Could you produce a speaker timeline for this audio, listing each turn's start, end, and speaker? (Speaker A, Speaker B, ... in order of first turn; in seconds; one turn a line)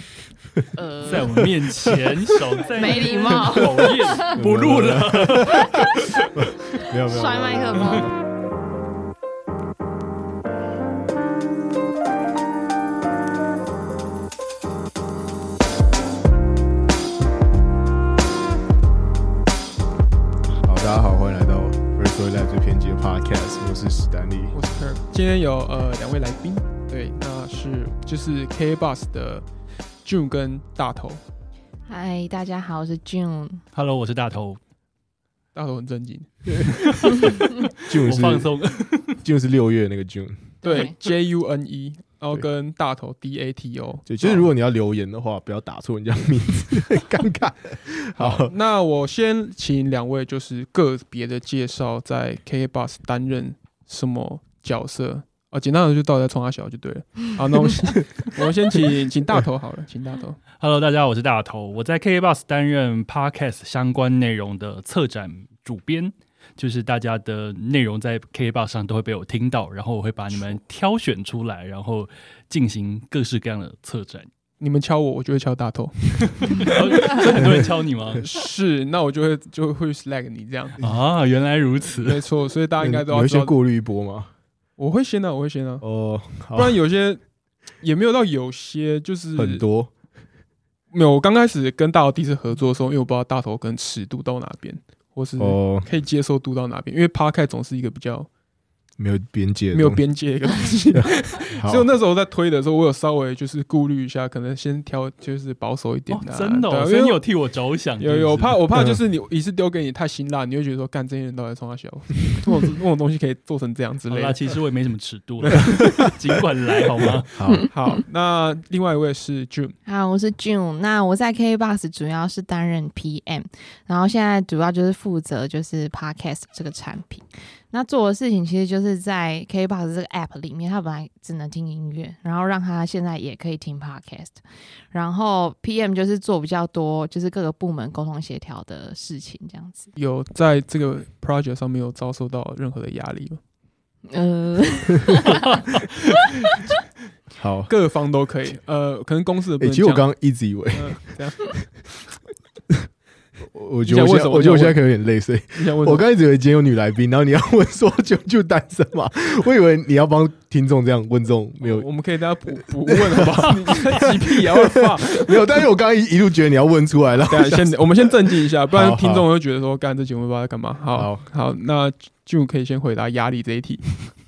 Speaker A: 0.8-1.5
Speaker B: 1.0-6.1
Speaker C: 1.3-2.1
Speaker A: 2.7-4.4
Speaker C: 3.5-8.1
Speaker A: 7.1-8.1
Speaker C: 20.6-24.5
Speaker D: 24.5-29.5
Speaker D: 30.0-31.2
Speaker A: 31.9-33.6
Speaker B: 33.7-34.6
Speaker D: 35.5-36.3
Speaker B: 36.7-39.2
Speaker C: 37.8-38.5
Speaker C: 39.2-40.5
Speaker A: 40.6-41.0
Speaker D: 40.6-44.5
Speaker C: 44.1-48.5
Speaker D: 48.2-60.4
Speaker B: 60.6-74.3
Speaker D: 74.6-77.5
Speaker B: 76.5-78.2
Speaker D: 78.2-80.8
Speaker B: 80.8-82.2
Speaker D: 82.0-83.5
Speaker C: 82.8-84.3
Speaker D: 84.8-85.8
Speaker C: 85.8-86.8
Speaker D: 86.5-87.2
Speaker D: 87.8-89.6
Speaker C: 89.3-89.9
Speaker D: 90.9-98.3
Speaker C: 95.4-95.8
Speaker C: 99.0-100.0
Speaker D: 99.7-107.2
Speaker C: 100.9-101.9
Speaker B: 106.1-108.6
Speaker D: 108.0-114.4
Speaker B: 114.1-117.3
Speaker D: 115.4-115.8
Speaker C: 117.3-117.7
Speaker D: 117.7-119.8
Speaker A: 119.8-134.4
Speaker A: 134.9-139.9
Speaker D: 139.9-143.4
Speaker A: 144.1-145.5
Speaker B: 145.3-145.7
Speaker C: 147.4-147.7
Speaker D: 147.7-150.1
Speaker C: 149.6-151.2
Speaker D: 150.7-151.7
Speaker C: 153.5-161.9
Speaker D: 153.8-154.8
Speaker D: 155.6-156.0
Speaker D: 161.6-165.6
Speaker C: 162.9-169.2
Speaker D: 167.3-174.1
Speaker C: 170.9-171.2